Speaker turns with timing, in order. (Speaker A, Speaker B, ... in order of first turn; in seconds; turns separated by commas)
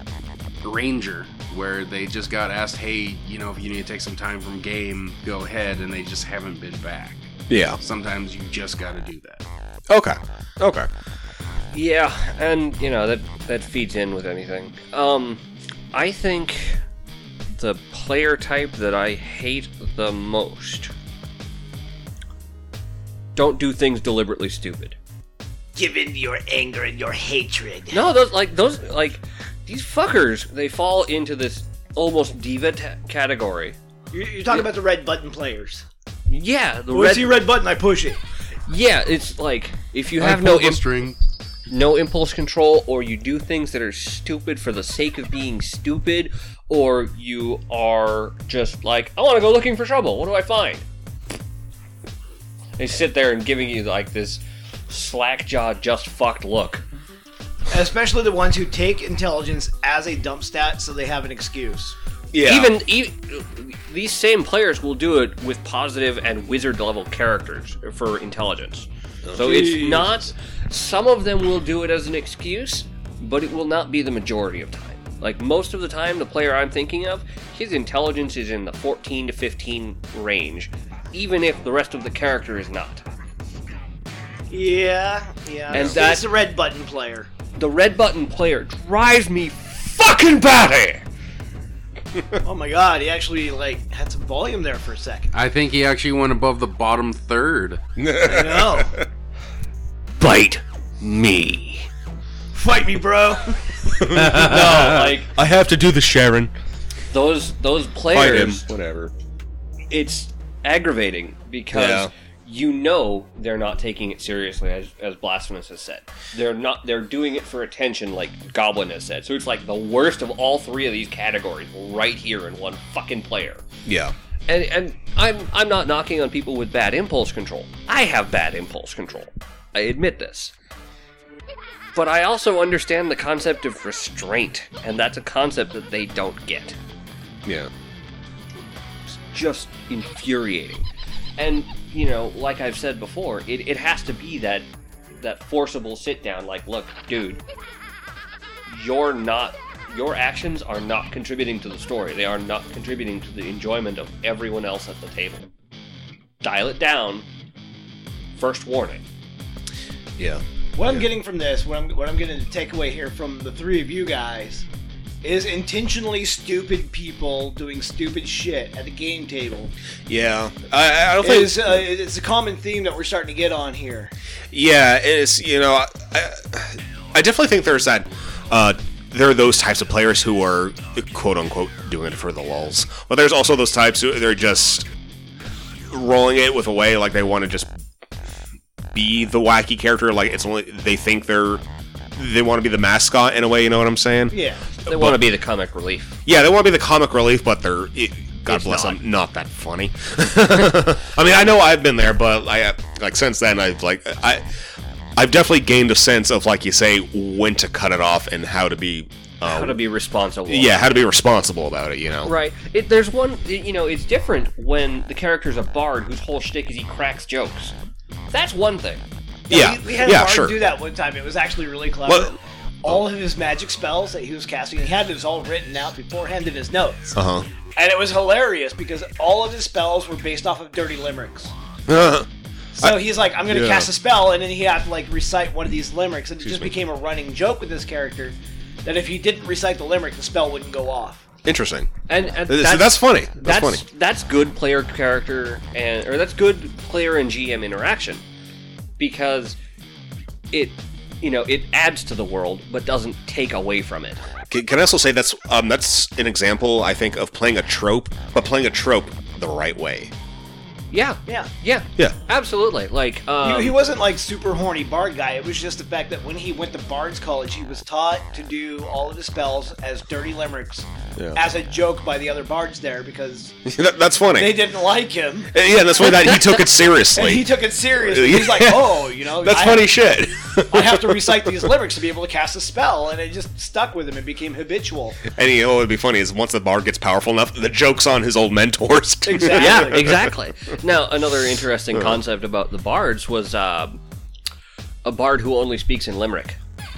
Speaker A: 0.6-7.3, Speaker B: 7.5-7.8, Speaker A: 7.8-9.4, Speaker B: 9.9-10.9, Speaker C: 11.7-15.4, Speaker C: 15.9-16.8, Speaker C: 17.5-20.9, Speaker C: 23.4-24.9, Speaker D: 25.8-28.0, Speaker C: 27.9-33.8, Speaker D: 34.1-35.8, Speaker C: 36.3-37.4, Speaker D: 36.9-38.2, Speaker C: 38.7-40.8, Speaker A: 40.2-41.2, Speaker C: 41.7-50.8, Speaker C: 52.8-56.8, Speaker D: 57.7-62.0, Speaker B: 62.3-62.7, Speaker C: 62.4-83.0, Speaker B: 69.2-70.2, Speaker D: 84.5-87.3, Speaker C: 85.7-86.2, Speaker B: 85.7-86.0, Speaker C: 87.5-91.0, Speaker D: 92.4-95.3, Speaker A: 95.3-97.8, Speaker B: 98.0-99.0, Speaker D: 98.2-99.0, Speaker C: 100.2-101.9, Speaker D: 102.5-103.6, Speaker B: 104.0-106.5, Speaker C: 104.2-105.3, Speaker C: 107.1-108.6, Speaker B: 108.1-109.1, Speaker C: 109.9-123.6, Speaker B: 111.7-112.1, Speaker B: 123.8-124.1, Speaker C: 124.5-130.5, Speaker C: 131.9-136.8, Speaker C: 139.1-144.7, Speaker C: 145.2-147.4, Speaker C: 148.7-155.5, Speaker C: 156.4-157.2, Speaker C: 158.4-159.0, Speaker B: 160.2-161.0, Speaker D: 160.8-164.7, Speaker D: 165.2-169.7, Speaker B: 170.1-171.8, Speaker D: 171.2-174.1, Speaker B: 174.5-184.9, Speaker B: 185.9-187.7, Speaker B: 188.9-191.6, Speaker B: 192.2-194.3, Speaker D: 194.3-194.6, Speaker C: 194.8-196.2, Speaker B: 194.8-195.2, Speaker B: 196.2-204.4, Speaker C: 198.5-199.0, Speaker B: 205.2-209.8, Speaker C: 209.4-210.8, Speaker B: 210.5-212.3, Speaker C: 212.2-217.7, Speaker C: 218.3-219.0, Speaker D: 219.5-227.2, Speaker B: 219.5-220.5, Speaker B: 222.1-222.3, Speaker B: 227.1-227.4, Speaker D: 227.8-231.5, Speaker B: 231.9-232.3, Speaker D: 232.8-241.2, Speaker B: 232.8-233.9, Speaker B: 241.4-243.8, Speaker C: 242.1-248.2, Speaker C: 249.0-249.6, Speaker C: 250.5-254.2, Speaker B: 254.5-260.1, Speaker C: 260.9-263.8, Speaker D: 263.4-273.5, Speaker B: 273.6-274.6, Speaker D: 274.4-276.3, Speaker B: 275.5-277.4, Speaker D: 277.1-279.9, Speaker B: 278.0-281.5, Speaker D: 280.7-285.2, Speaker B: 285.3-290.3, Speaker D: 289.2-290.1, Speaker C: 289.5-294.0, Speaker C: 295.0-296.6